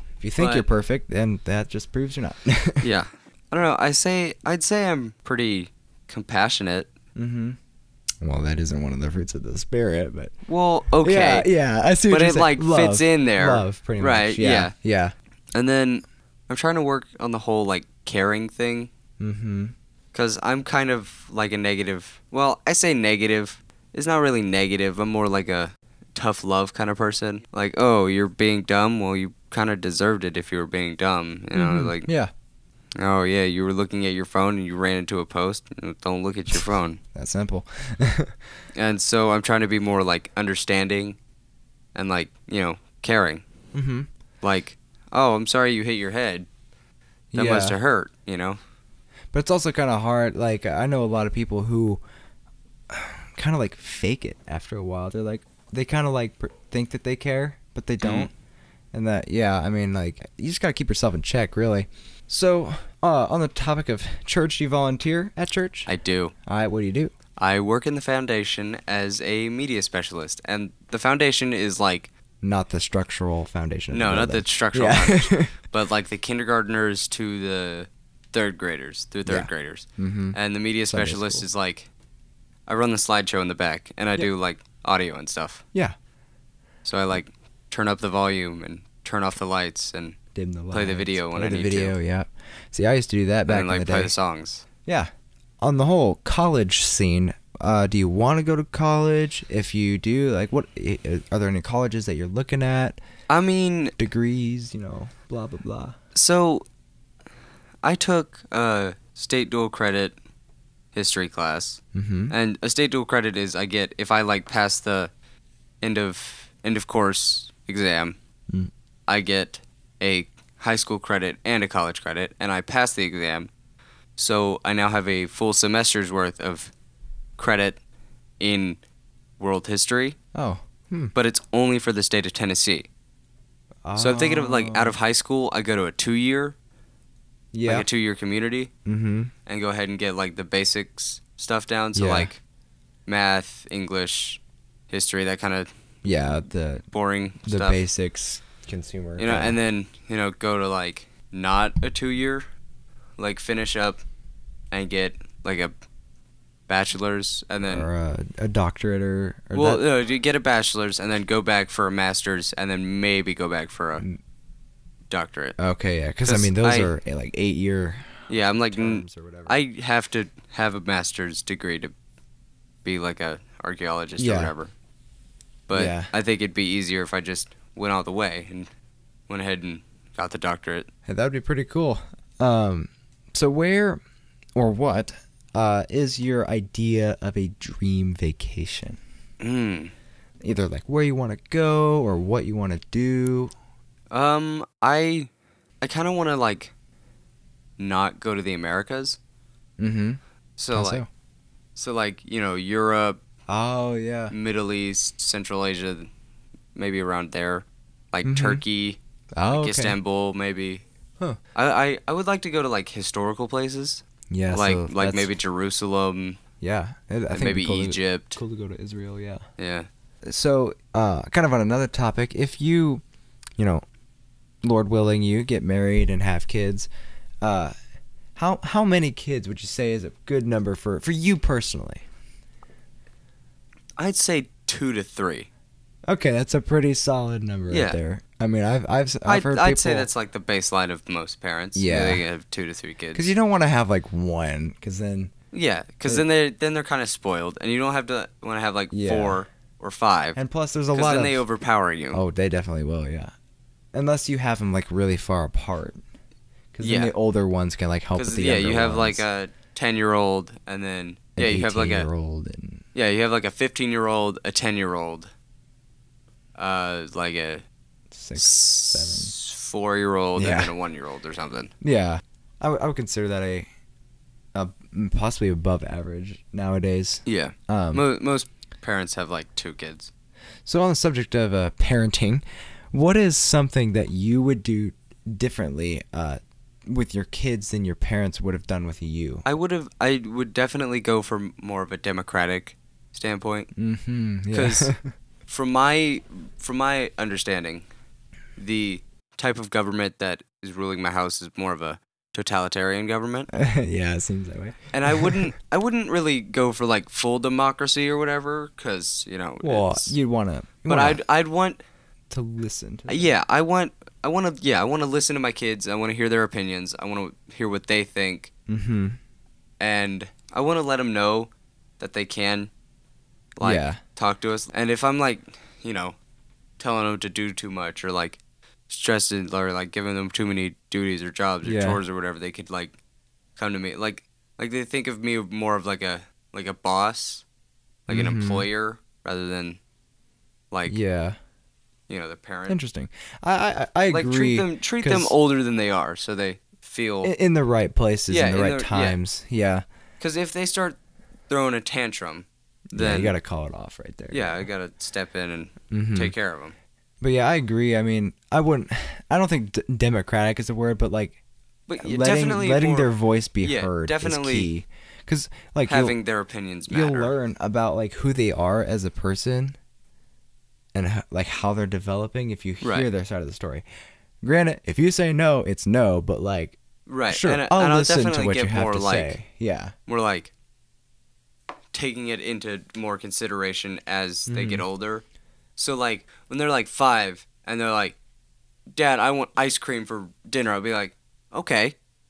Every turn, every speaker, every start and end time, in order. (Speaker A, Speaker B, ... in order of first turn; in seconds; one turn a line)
Speaker A: 0.2-2.9
Speaker B: 0.4-0.7
Speaker B: 2.8-6.9
Speaker A: 7.2-7.6
Speaker A: 8.2-10.3
Speaker B: 10.5-11.5
Speaker A: 11.0-15.1
Speaker B: 12.1-14.7
Speaker B: 15.5-18.9
Speaker A: 19.2-19.7
Speaker B: 20.1-32.1
Speaker A: 31.5-32.3
Speaker B: 33.0-37.0
Speaker A: 37.1-38.4
Speaker B: 38.7-41.2
Speaker B: 41.9-43.4
Speaker A: 43.7-44.1
Speaker B: 44.4-46.5
Speaker A: 47.3-47.8
Speaker B: 47.3-48.6
Speaker A: 49.3-52.0
Speaker A: 52.9-58.3
Speaker B: 58.0-58.3
Speaker A: 58.9-65.9
Speaker B: 65.9-66.3
Speaker A: 66.4-67.1
Speaker B: 67.4-72.1
Speaker A: 72.4-75.5
Speaker B: 73.9-81.9
Speaker A: 79.3-80.4
Speaker A: 80.9-81.4
Speaker B: 82.7-85.6
Speaker B: 86.8-90.2
Speaker A: 90.3-94.1
Speaker B: 90.7-92.0
Speaker B: 93.5-94.6
Speaker A: 95.6-103.0
Speaker B: 103.3-104.0
Speaker A: 104.0-106.0
Speaker B: 106.1-106.6
Speaker B: 107.8-110.2
Speaker B: 110.9-115.1
Speaker A: 111.9-112.3
Speaker B: 115.8-118.2
Speaker B: 119.1-123.5
Speaker B: 124.2-126.7
Speaker B: 127.4-127.8
Speaker B: 128.4-128.8
Speaker B: 129.4-130.2
Speaker A: 130.3-131.1
Speaker B: 131.1-132.9
Speaker A: 133.8-134.9
Speaker B: 134.0-136.5
Speaker A: 137.5-137.9
Speaker B: 137.6-138.7
Speaker A: 138.8-139.3
Speaker B: 139.4-142.4
Speaker A: 141.9-142.3
Speaker B: 143.1-145.7
Speaker A: 146.0-146.8
Speaker B: 146.9-147.8
Speaker A: 147.4-149.6
Speaker B: 149.2-152.4
Speaker B: 153.2-154.0
Speaker B: 154.7-155.7
Speaker B: 156.7-157.9
Speaker A: 157.6-159.8
Speaker B: 159.5-164.0
Speaker B: 165.1-165.6
Speaker A: 165.6-169.6
Speaker B: 166.2-166.9
Speaker B: 168.3-171.9
Speaker B: 172.8-174.7
Speaker A: 174.2-174.5
Speaker B: 175.7-178.7
Speaker A: 175.7-176.1
Speaker B: 179.3-180.9
Speaker A: 181.1-184.0
Speaker A: 184.6-189.0
Speaker B: 189.4-189.9
Speaker A: 190.4-193.5
Speaker B: 194.1-195.3
Speaker B: 195.8-196.7
Speaker B: 197.8-199.2
Speaker A: 199.8-200.2
Speaker B: 200.6-201.0
Speaker A: 200.7-201.1
Speaker B: 201.8-203.2
Speaker A: 203.5-204.3
Speaker B: 204.3-206.1
Speaker B: 206.7-209.0
Speaker A: 208.2-208.6
Speaker A: 209.3-210.0
Speaker B: 209.5-210.8
Speaker B: 211.5-216.4
Speaker A: 214.3-215.3
Speaker A: 216.6-219.4
Speaker B: 217.3-218.4
Speaker B: 219.6-219.9
Speaker A: 220.2-223.0
Speaker A: 223.6-223.8
Speaker A: 224.6-226.9
Speaker A: 227.4-227.7
Speaker A: 228.3-232.0
Speaker B: 234.0-235.5
Speaker A: 236.1-240.1
Speaker B: 237.7-238.0
Speaker B: 239.2-243.3
Speaker A: 241.7-242.2
Speaker A: 243.1-245.3
Speaker B: 245.5-250.4
Speaker A: 248.9-249.4
Speaker A: 250.3-251.4
Speaker B: 250.9-252.2
Speaker A: 252.1-253.3
Speaker A: 253.9-256.0
Speaker A: 256.7-259.2
Speaker B: 256.8-257.1
Speaker B: 258.1-262.1
Speaker A: 261.4-262.8
Speaker B: 262.9-265.3
Speaker B: 266.6-267.6
Speaker A: 268.1-269.3
Speaker B: 268.4-271.7
Speaker A: 270.4-270.7
Speaker A: 271.8-273.7
Speaker A: 274.5-278.0
Speaker B: 277.2-280.1
Speaker A: 280.6-289.4
Speaker B: 289.4-293.7
Speaker A: 293.8-295.1
Speaker B: 294.5-294.9
Speaker B: 295.5-297.8
Speaker B: 298.6-303.5
Speaker A: 303.5-305.5
Speaker B: 304.9-310.1
Speaker A: 309.6-311.2
Speaker B: 310.9-311.8
Speaker A: 312.3-313.3
Speaker B: 313.1-318.5
Speaker A: 318.7-319.2
Speaker B: 319.8-322.7
Speaker B: 323.6-326.1
Speaker A: 323.6-324.0
Speaker B: 326.8-332.9
Speaker A: 331.6-332.0
Speaker B: 333.6-337.4
Speaker B: 338.1-339.8
Speaker A: 338.1-338.6
Speaker B: 340.7-341.0
Speaker A: 340.9-341.4
Speaker B: 342.1-342.8
Speaker A: 342.7-345.3
Speaker B: 344.1-347.3
Speaker A: 347.2-349.8
Speaker B: 348.3-349.2
Speaker B: 350.2-351.0
Speaker B: 351.5-353.3
Speaker A: 352.9-354.6
Speaker B: 354.3-356.7
Speaker A: 355.9-356.3
Speaker A: 357.2-361.4
Speaker B: 361.9-363.1
Speaker A: 362.0-366.1
Speaker B: 363.6-364.7
Speaker B: 365.9-367.3
Speaker A: 366.9-369.8
Speaker A: 370.9-373.8
Speaker B: 372.8-373.1
Speaker A: 374.4-379.9
Speaker B: 377.1-379.4
Speaker B: 380.1-380.5
Speaker B: 381.9-385.2
Speaker A: 384.5-384.8
Speaker B: 385.8-388.1
Speaker B: 388.9-391.9